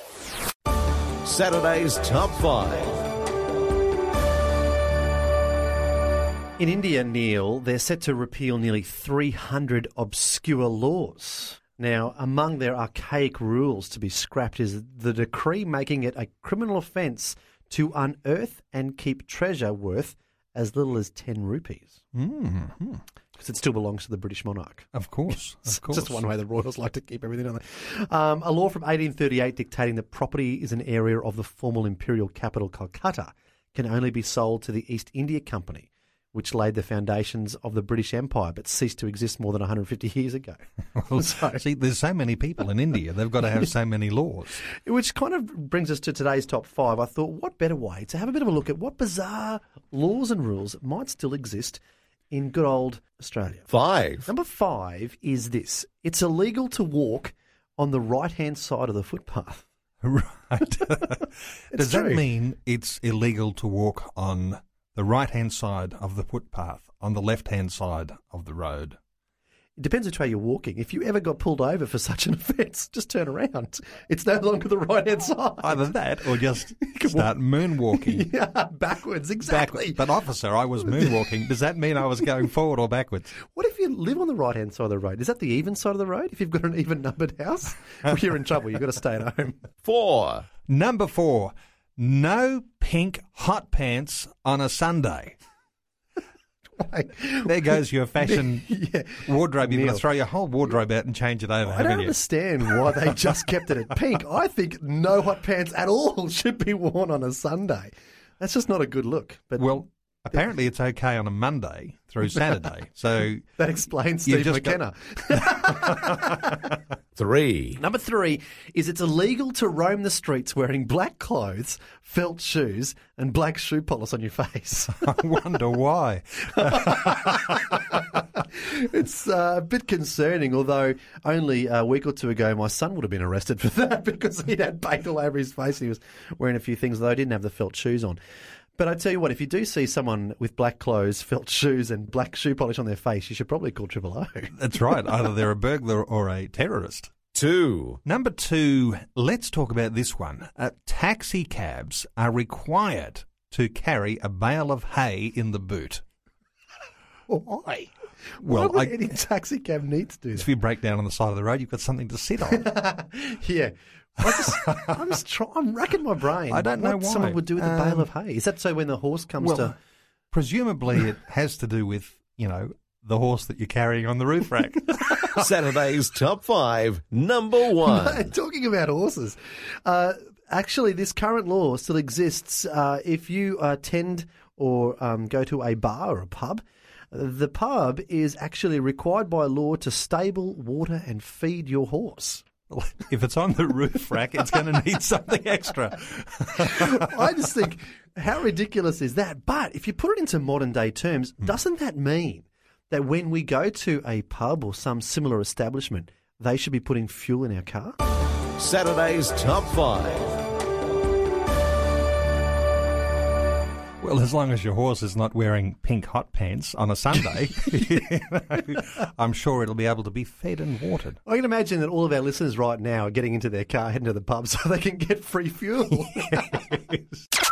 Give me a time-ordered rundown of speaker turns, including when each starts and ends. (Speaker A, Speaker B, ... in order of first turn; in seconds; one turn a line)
Speaker A: 1.2-3.0
Speaker B: 6.6-22.0
Speaker C: 22.1-23.0
Speaker B: 23.4-40.6
Speaker C: 24.9-26.2
Speaker C: 41.0-44.6
Speaker B: 41.2-41.6
Speaker B: 44.7-59.6
Speaker A: 53.7-54.3
Speaker C: 60.0-69.0
Speaker B: 61.7-62.2
Speaker B: 69.8-75.9
Speaker C: 75.6-78.3
Speaker B: 76.8-77.2
Speaker B: 77.9-80.0
Speaker C: 79.5-83.4
Speaker B: 80.9-81.3
Speaker B: 83.4-89.6
Speaker A: 89.8-90.5
Speaker C: 90.7-95.4
Speaker B: 96.8-100.0
Speaker C: 97.4-98.7
Speaker C: 99.2-103.1
Speaker B: 101.7-109.8
Speaker C: 109.6-113.5
Speaker B: 113.6-116.7
Speaker C: 114.2-114.8
Speaker C: 115.3-116.1
Speaker A: 117.2-117.8
Speaker B: 117.8-125.2
Speaker C: 125.0-127.4
Speaker B: 126.6-138.2
Speaker B: 138.8-144.5
Speaker C: 144.6-147.1
Speaker A: 147.3-148.0
Speaker C: 148.1-156.0
Speaker B: 157.3-160.5
Speaker C: 158.4-159.2
Speaker C: 160.3-162.7
Speaker B: 162.5-169.7
Speaker C: 164.3-165.0
Speaker C: 166.5-168.1
Speaker C: 169.4-169.7
Speaker C: 170.3-175.5
Speaker A: 175.3-178.3
Speaker B: 177.8-192.4
Speaker C: 192.7-197.1
Speaker B: 196.6-207.9
Speaker A: 208.6-210.4
Speaker C: 214.0-221.2
Speaker B: 221.3-226.4
Speaker C: 226.2-227.2